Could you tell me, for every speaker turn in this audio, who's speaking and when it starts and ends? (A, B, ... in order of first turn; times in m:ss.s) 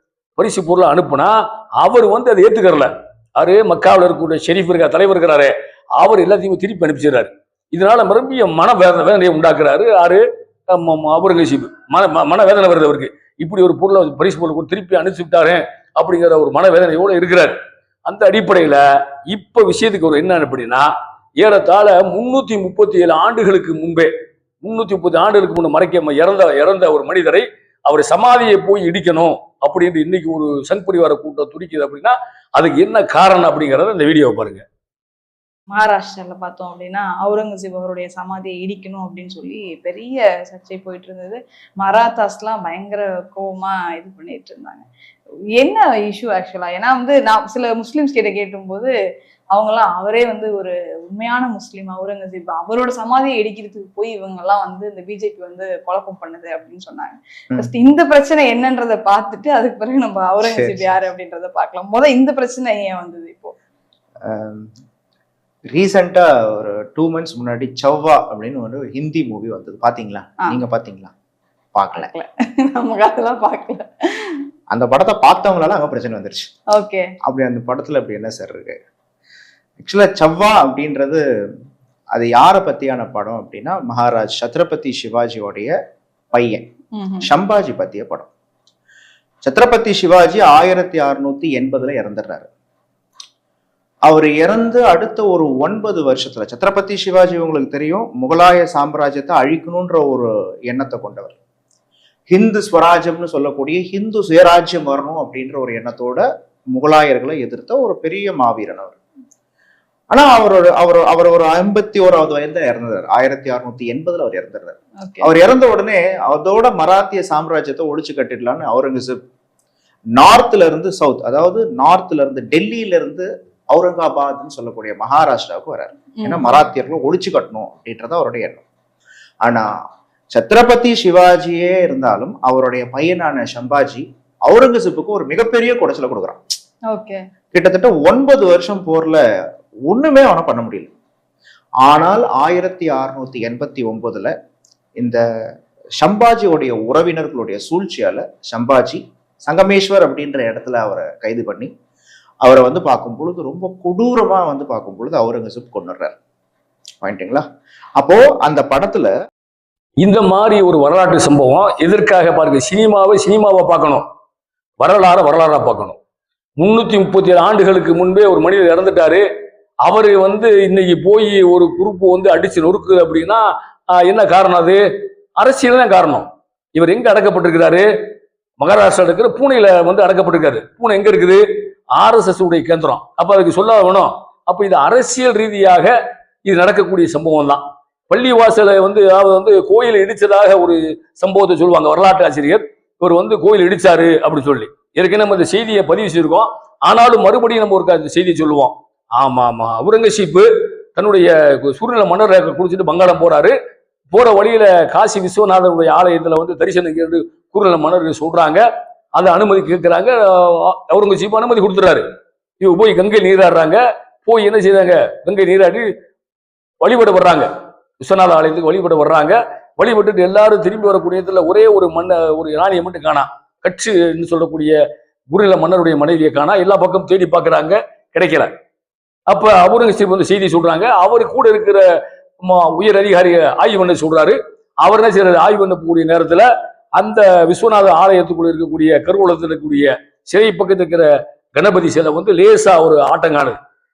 0:00.4-0:17.5 A
0:18.0-0:24.1 A
0:24.6-0:34.6 A
0:35.7-0:44.8 B
0:45.6-0:48.9 B
0:49.5-1:03.5 B
1:00.4-1:00.9 C
1:04.2-1:04.7 C
1:05.7-1:11.1 C
1:11.7-1:12.1 C
1:11.9-1:14.4 B
1:14.7-1:16.5 C
1:16.7-1:17.1 B
1:17.2-1:18.7 C
1:19.8-1:21.2 C
1:22.1-1:25.7 C
1:26.3-1:26.6 C
1:26.9-1:27.3 B
1:27.2-1:28.3 C
1:29.4-1:32.5 C
1:34.0-1:41.4 C
1:42.3-1:49.0 C
1:50.1-1:59.2 C
1:55.0-1:55.3 B
2:00.2-2:08.6 C
2:06.2-2:06.6 B
2:10.3-2:16.4 C
2:16.9-2:17.2 B
2:17.5-2:19.2 C
2:19.9-2:20.9 C
2:21.8-2:24.3 C
2:26.0-2:31.7 C
2:32.4-2:36.1 C
2:37.0-2:37.4 C
2:38.0-2:39.1 C
2:40.0-2:44.0 A
2:44.8-2:46.0 A
2:46.6-2:49.2 A
2:49.8-2:54.8 A
2:55.4-2:57.9 A
2:58.6-3:01.4 A
3:01.9-3:05.9 A
3:06.4-3:23.5 A
3:24.1-3:32.0 A
3:32.6-3:35.9 A
3:36.8-3:37.5 A
3:38.0-3:44.7 A
3:45.3-3:48.5 A
3:49.3-3:51.8 A
3:52.4-4:03.6 A